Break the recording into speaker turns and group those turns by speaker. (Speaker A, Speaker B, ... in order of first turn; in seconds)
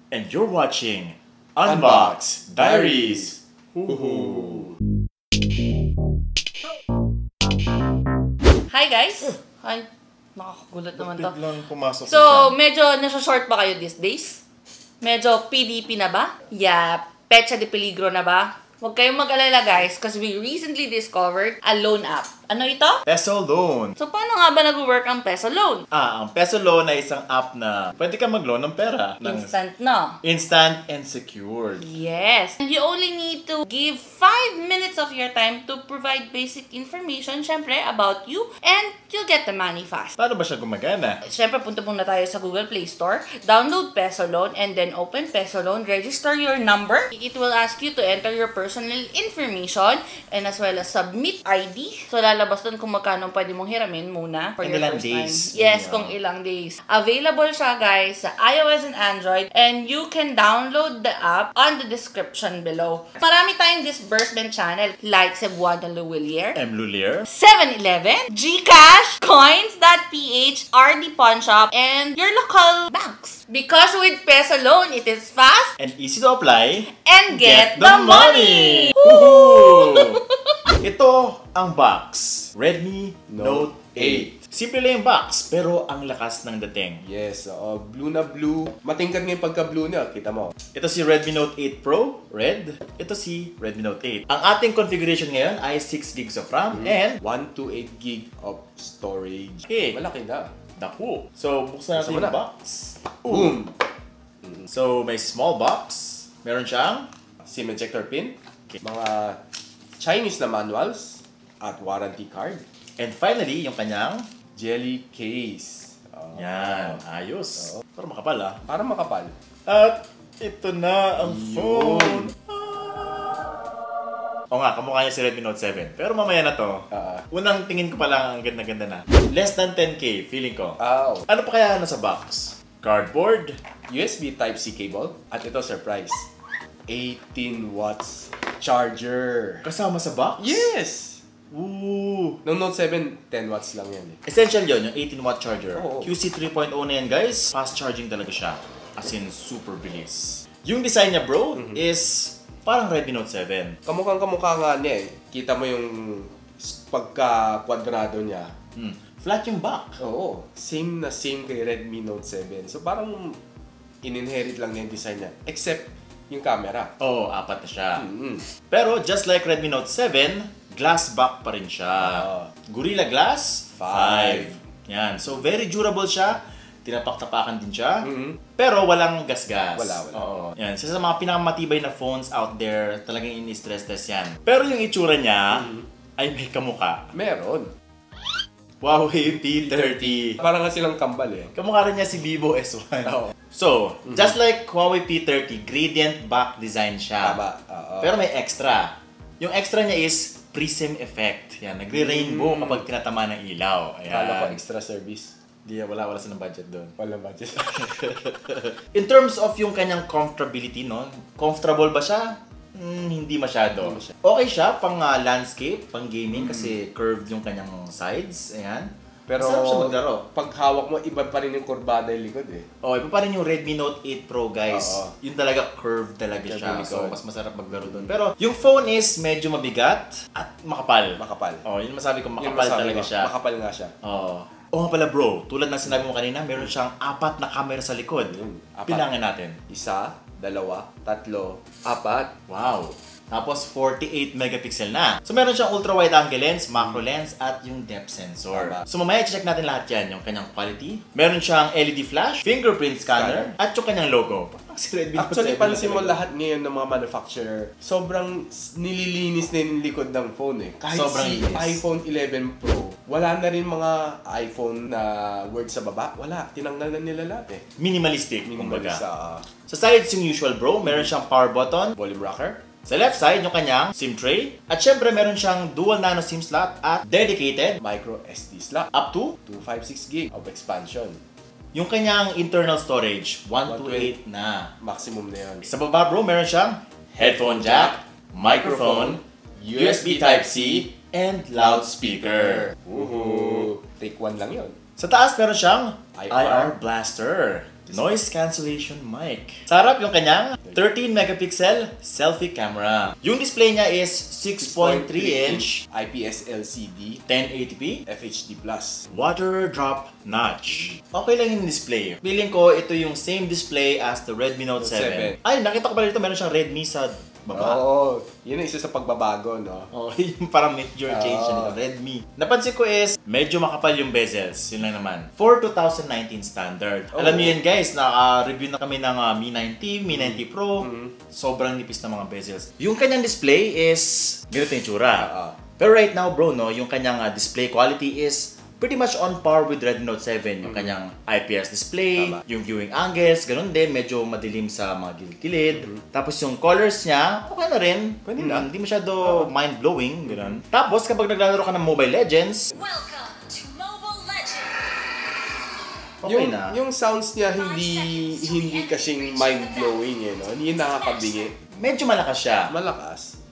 Speaker A: 0.1-4.7, 10.9-12.6, 23.1-23.9, 25.9-29.5, 30.2-31.9, 40.2-41.2, 54.6-56.1, 66.5-67.3, 75.8-80.2, 80.8-87.0, 90.7-97.2, 99.7-100.0, 100.8-103.5, 104.7-107.1, 113.0-114.2, 116.3-118.6, 119.7-123.5, 124.5-133.6, 139.6-140.7, 141.5-142.4, 144.2-153.8, 158.8-160.0, 167.0-168.0, 168.7-187.1, 188.8-190.4, 191.5-197.4, 198.0-204.6, 205.6-206.9, 207.6-220.2, 222.8-233.3, 234.0-238.3, 238.9-239.6, 242.5-256.2, 260.9-261.8, 267.8-269.0, 269.7-271.9, 272.9-277.8, 278.9-279.4, 281.7-284.7, 285.6-289.2, 289.8-293.6, 295.0-305.8, 307.3-308.0, 309.1-317.8, 319.9-352.7, 356.2-356.8, 361.8-362.7
Speaker B: 1.6-3.3, 3.9-4.7, 83.3-84.3, 87.0-90.5, 96.7-100.5, 101.9-102.4, 103.2-103.8, 104.4-104.7, 107.4-109.4, 110.0-112.6, 114.5-117.0, 118.7-119.3, 121.2-122.3, 126.9-127.2, 130.8-131.3, 133.9-136.3, 136.9-139.7, 140.4-141.2, 142.4-144.2, 145.7-146.1, 153.8-158.5, 160.0-163.4, 164.0-166.9, 168.0-168.5, 172.0-172.5, 173.8-174.5, 178.0-178.4, 179.8-180.2, 185.6-185.8, 187.1-187.7, 189.6-191.5, 197.2-198.1, 202.0-202.8, 204.1-205.3, 207.0-207.9, 216.3-216.8, 219.3-222.7, 224.7-225.1, 226.5-227.2, 227.7-228.2, 231.2-231.6, 232.4-233.9, 238.2-239.1, 239.7-242.3, 248.5-248.8, 253.1-253.5, 255.1-267.6, 268.4-269.4, 270.8-271.1, 272.0-272.6, 277.8-278.9, 279.4-281.2, 283.7-284.1, 284.8-285.7, 287.1-290.9, 292.4-294.8, 296.1-296.7, 297.9-298.1, 304.6-307.2, 308.1-309.1, 310.7-311.0, 314.8-315.4, 317.5-319.9, 321.1-321.8, 327.1-327.6, 330.8-331.1, 335.2-335.6, 348.2-348.7, 356.2-361.5, 362.7-363.3
Speaker C: 8.7-11.4, 12.1-14.4, 15.0-23.0, 24.0-25.9, 29.2-30.2, 31.8-40.1, 41.2-66.6, 67.3-75.7, 76.9-80.7
Speaker D: 352.8-355.0, 357.6-361.4